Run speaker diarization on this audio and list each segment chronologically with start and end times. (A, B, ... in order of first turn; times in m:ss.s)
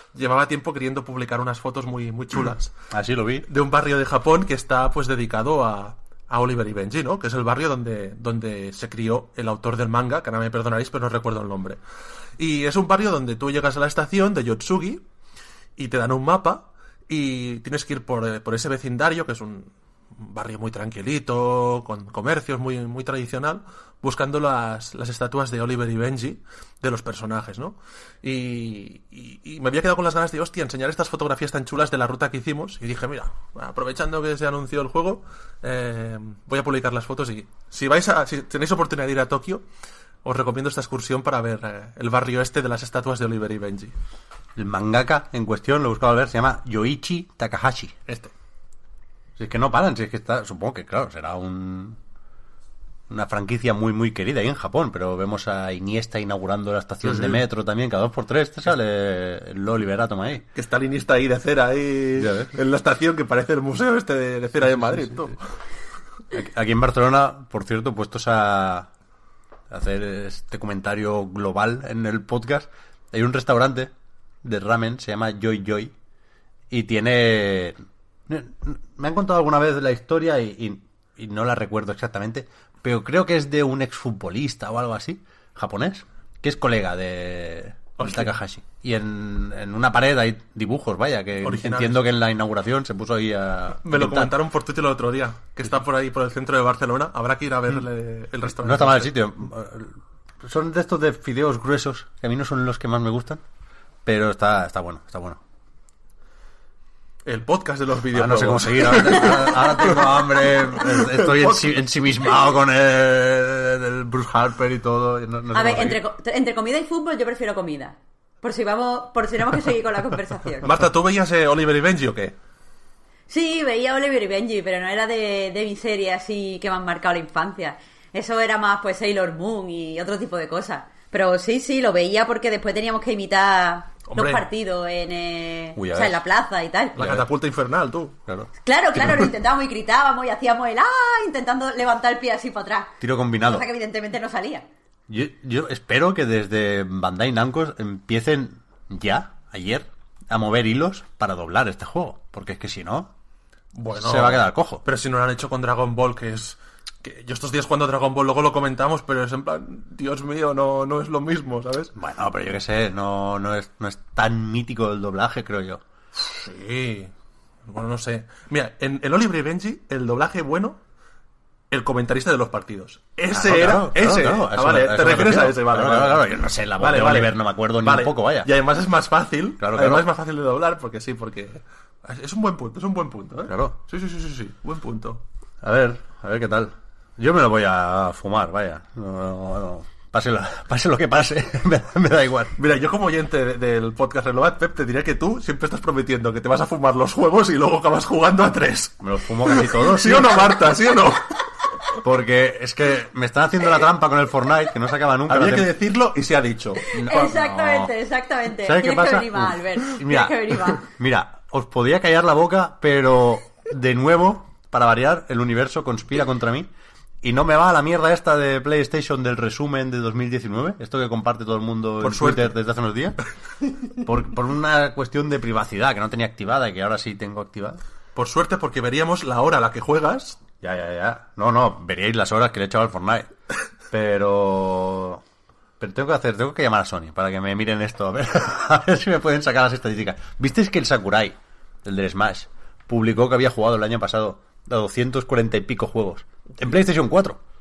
0:00.1-0:02.7 A
0:02.9-0:03.5 B
0:03.5-0:11.8 A
0:12.4-0:15.0 A
0:15.8-0:39.6 A
0:40.2-0:44.0 A
0:44.6-0:48.0 B
0:48.1-0:48.3 A
0:49.4-0:52.0 B
0:53.1-1:00.4 B
0:57.0-0:57.4 A
1:00.6-1:05.6 A
1:02.2-1:02.5 B
1:06.3-1:08.9 B
1:09.7-1:13.9 B
1:14.4-1:15.9 B
1:16.7-1:17.8 B
1:18.3-1:34.3 B
1:28.0-1:28.4 A
1:31.4-1:32.0 A
1:33.8-1:39.1 A
1:38.6-1:43.4 B
1:44.0-1:45.4 B
1:47.2-1:51.8 A
1:48.1-1:56.0 B
1:55.5-2:00.7 C
2:00.6-2:02.4 A
2:03.3-2:17.1 C
2:14.1-2:14.5 A
2:15.8-2:16.2 B
2:17.0-2:17.3 B
2:17.0-2:18.2 A
2:18.3-2:19.3 B
2:18.6-2:24.6 C
2:23.0-2:23.6 B
2:25.1-2:33.1 B
2:33.8-2:41.9 A
2:34.0-2:34.8 B
2:42.0-2:45.8 B
2:46.2-2:47.1 A
2:47.6-2:50.8 A
2:51.7-2:56.3 A
2:53.3-2:58.5 B
2:56.8-3:05.2 A
2:59.6-3:00.1 B
3:03.5-3:03.8 B
3:05.6-3:12.6 B
3:12.6-3:21.9 A
3:19.0-3:20.7 B
3:22.0-3:25.7 B
3:25.3-3:26.9 A
3:26.9-3:27.9 B
3:26.9-3:30.9 C
3:28.6-3:36.7 B
3:37.2-3:43.2 B
3:42.0-3:42.5 A
3:44.0-3:47.8 B
3:48.2-3:50.4 A
3:50.6-3:53.3 B
3:53.9-3:55.2 B
3:55.8-4:07.4 B